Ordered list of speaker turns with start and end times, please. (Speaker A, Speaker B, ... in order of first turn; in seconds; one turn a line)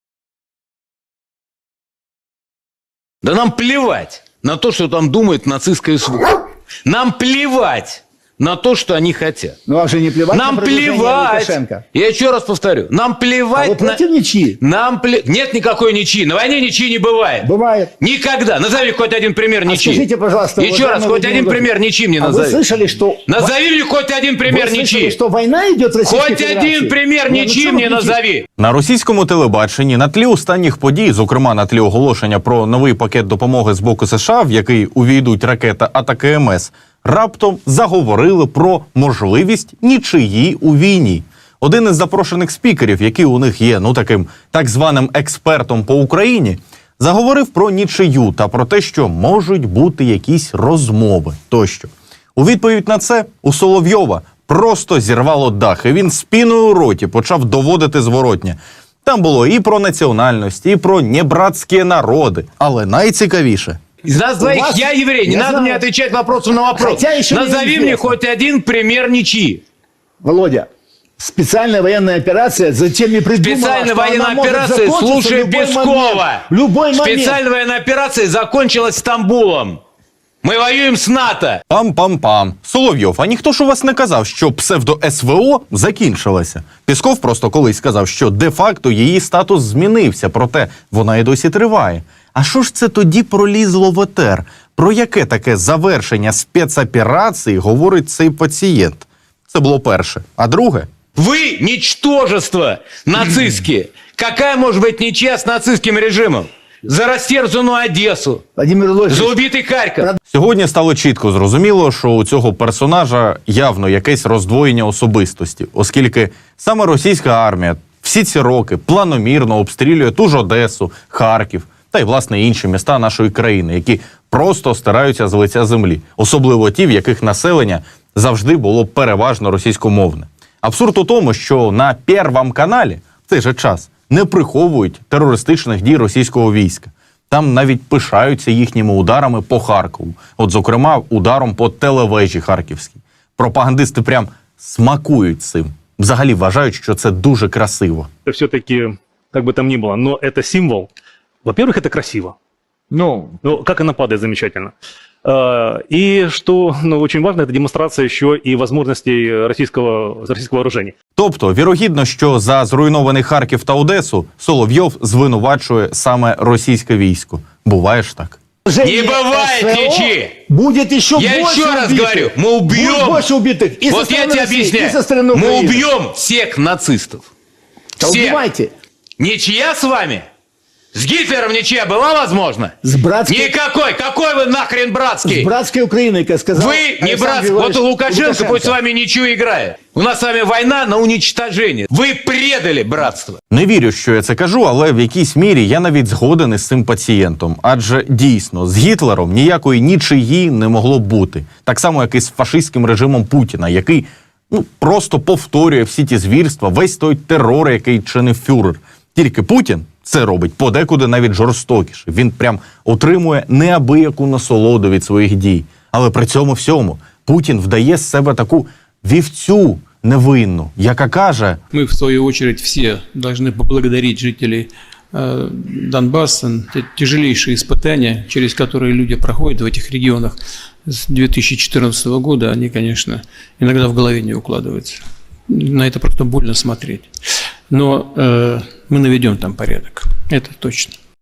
Speaker A: 3.2-9.6
Speaker B: 9.7-11.8
Speaker A: 10.3-14.0
Speaker B: 13.5-14.6
Speaker A: 14.6-17.5
Speaker B: 17.4-17.9
Speaker A: 18.0-20.1
Speaker B: 19.6-23.5
Speaker A: 20.6-22.6
Speaker A: 23.2-25.2
Speaker B: 24.4-28.2
Speaker A: 26.0-28.4
Speaker C: 28.6-63.8
Speaker A: 64.0-69.6
Speaker B: 64.4-65.8
Speaker B: 66.7-68.2
Speaker B: 70.2-70.7
Speaker B: 71.2-77.4
Speaker A: 73.3-79.8
Speaker A: 80.4-81.6
Speaker C: 81.7-100.9
Speaker A: 101.2-108.4
Speaker B: 108.6-109.4
Speaker A: 109.1-110.1
Speaker C: 110.3-148.1
Speaker D: 148.2-150.9
Speaker D: 151.4-152.3
Speaker D: 152.9-154.7
Speaker D: 155.2-160.9
Speaker C: 161.2-168.4
Speaker B: 168.7-175.9
Speaker A: 168.8-170.4
Speaker A: 171.1-173.2
Speaker A: 173.8-177.2
Speaker B: 178.0-178.7
Speaker A: 178.0-178.4
Speaker A: 179.2-180.2
Speaker A: 180.9-185.5
Speaker B: 182.8-183.5
Speaker B: 185.2-188.8
Speaker A: 186.5-193.4
Speaker C: 193.5-221.6
Speaker E: 221.7-237.1
Speaker E: 237.7-240.9